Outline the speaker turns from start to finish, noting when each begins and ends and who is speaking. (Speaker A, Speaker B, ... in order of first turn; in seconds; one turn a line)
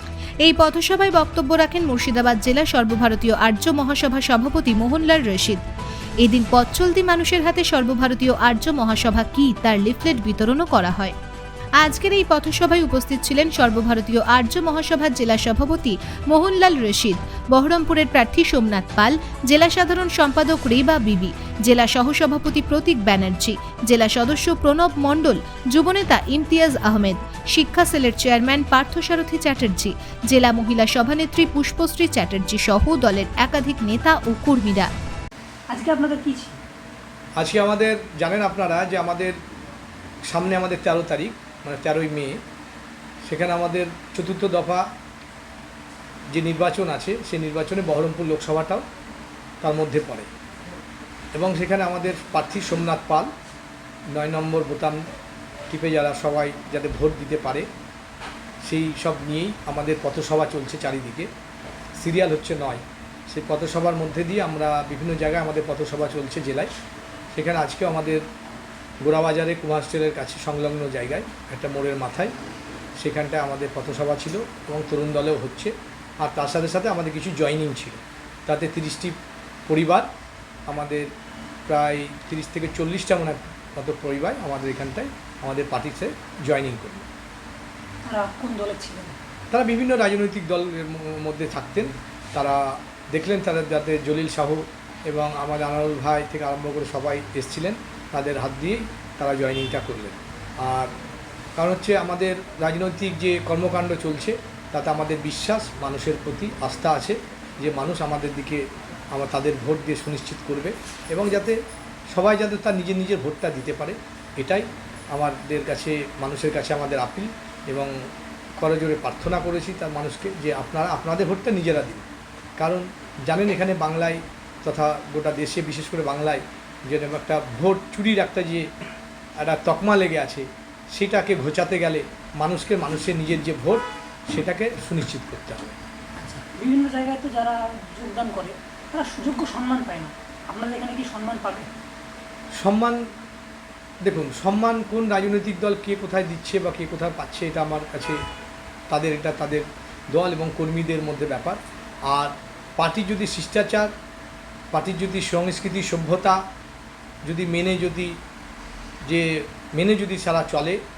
Speaker A: 0.4-5.6
Speaker A: 6.2-11.1
Speaker A: 11.8-34.9
Speaker B: 35.7-36.6
Speaker C: 37.4-39.4
Speaker C: 40.3-42.4
Speaker C: 43.2-44.8
Speaker C: 46.3-48.8
Speaker C: 49.6-50.3
Speaker C: 51.3-53.3
Speaker C: 54.1-55.0
Speaker C: 55.7-57.6
Speaker C: 58.6-61.3
Speaker C: 62.0-66.7
Speaker C: 67.3-68.2
Speaker C: 69.0-72.3
Speaker C: 73.0-79.2
Speaker C: 79.7-80.1
Speaker C: 80.7-81.1
Speaker C: 81.7-87.0
Speaker B: 88.0-89.2
Speaker C: 89.5-100.9
Speaker C: 101.6-111.6
Speaker C: 112.1-117.9
Speaker C: 118.6-122.1
Speaker C: 122.6-128.6
Speaker C: 129.4-135.8
Speaker B: 136.2-141.7
Speaker C: 142.6-143.0
Speaker C: 144.0-148.2
Speaker C: 148.9-153.9
Speaker C: 154.7-156.4
Speaker C: 157.2-158.1
Speaker C: 159.1-160.8